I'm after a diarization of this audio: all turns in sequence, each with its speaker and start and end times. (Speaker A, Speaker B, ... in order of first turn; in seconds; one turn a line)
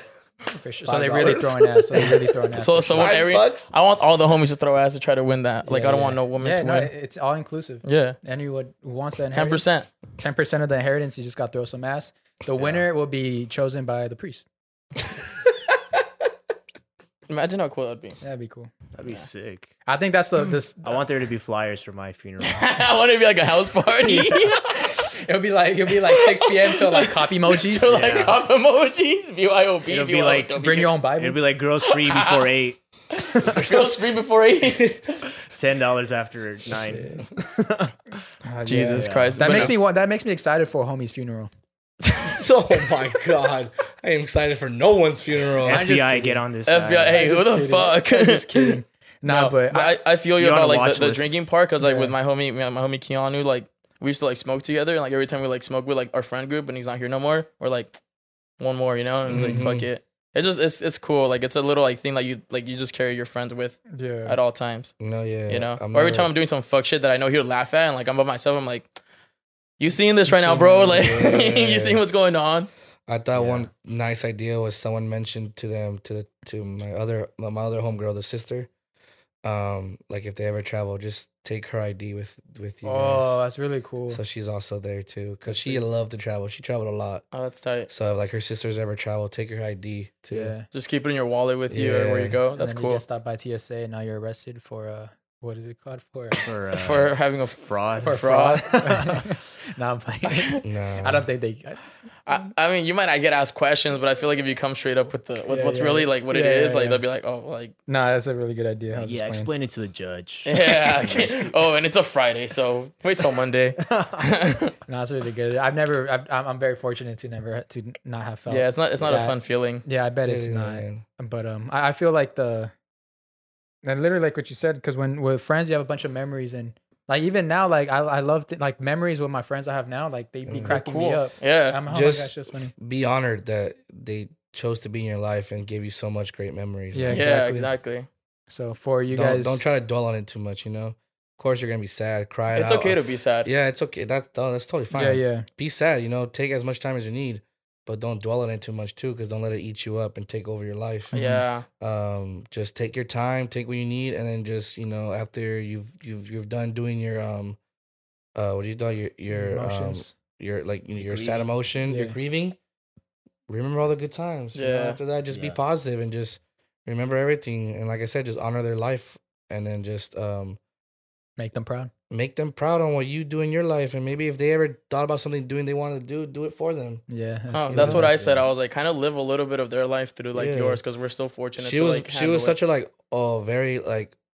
Speaker A: 0.5-3.2
Speaker B: 0.8-2.1
Speaker C: 2.6-6.9
Speaker B: 3.0-3.7
Speaker A: 5.6-14.5
Speaker C: 7.8-8.2
Speaker C: 9.3-9.9
Speaker D: 12.6-12.8
Speaker C: 17.3-18.2
Speaker A: 18.2-18.7
Speaker D: 18.9-19.7
Speaker A: 19.9-21.0
Speaker D: 20.8-22.6
Speaker C: 22.4-25.1
Speaker A: 24.0-28.0
Speaker C: 26.0-31.0
Speaker D: 27.8-28.4
Speaker D: 29.9-33.9
Speaker A: 30.6-31.4
Speaker C: 31.8-32.5
Speaker C: 33.1-35.3
Speaker D: 35.5-38.0
Speaker A: 36.9-37.2
Speaker A: 38.4-41.5
Speaker C: 38.6-39.8
Speaker D: 38.9-39.7
Speaker B: 42.2-45.9
Speaker D: 45.6-47.3
Speaker A: 45.7-46.5
Speaker C: 46.6-58.0
Speaker A: 47.1-50.0
Speaker D: 50.4-51.4
Speaker A: 51.8-52.1
Speaker C: 58.6-64.9
Speaker B: 59.2-59.9
Speaker A: 59.3-59.6
Speaker A: 63.9-64.4
Speaker B: 65.0-66.3
Speaker C: 65.5-68.9
Speaker C: 69.8-72.7
Speaker A: 70.3-71.0
Speaker B: 70.6-72.0
Speaker B: 73.1-78.7
Speaker D: 73.3-73.7
Speaker B: 79.4-83.4
Speaker A: 82.8-84.2
Speaker B: 84.1-87.2
Speaker A: 85.4-85.8
Speaker C: 87.3-87.9
Speaker B: 87.9-90.5
Speaker A: 90.3-90.7
Speaker C: 90.7-93.0
Speaker B: 91.7-92.4
Speaker A: 92.5-96.5
Speaker D: 96.4-99.2
Speaker C: 96.7-98.8
Speaker A: 98.0-101.8
Speaker C: 100.2-100.6
Speaker B: 100.6-101.2
Speaker C: 102.2-107.7
Speaker A: 105.5-107.0
Speaker A: 107.9-109.5
Speaker D: 108.9-111.5
Speaker C: 110.4-114.7
Speaker A: 114.9-122.7
Speaker C: 118.5-119.8
Speaker B: 120.3-121.0
Speaker A: 123.8-132.7
Speaker B: 130.4-130.8
Speaker C: 130.6-131.8
Speaker B: 131.9-137.2
Speaker A: 136.9-137.7
Speaker C: 137.1-138.1
Speaker A: 138.5-139.6
Speaker B: 139.1-151.1
Speaker C: 142.5-143.5
Speaker A: 144.9-145.5
Speaker A: 151.1-151.4
Speaker C: 151.1-151.7
Speaker B: 151.8-157.6
Speaker B: 158.3-162.6
Speaker A: 159.3-160.1
Speaker D: 161.0-161.5
Speaker A: 161.8-162.2
Speaker B: 163.5-170.6
Speaker C: 164.5-165.0
Speaker D: 165.3-165.6
Speaker A: 171.4-171.9
Speaker B: 172.1-177.0
Speaker A: 177.1-178.1
Speaker C: 177.5-182.6
Speaker B: 177.7-178.0
Speaker D: 177.8-178.5
Speaker B: 180.3-180.8
Speaker B: 181.6-184.1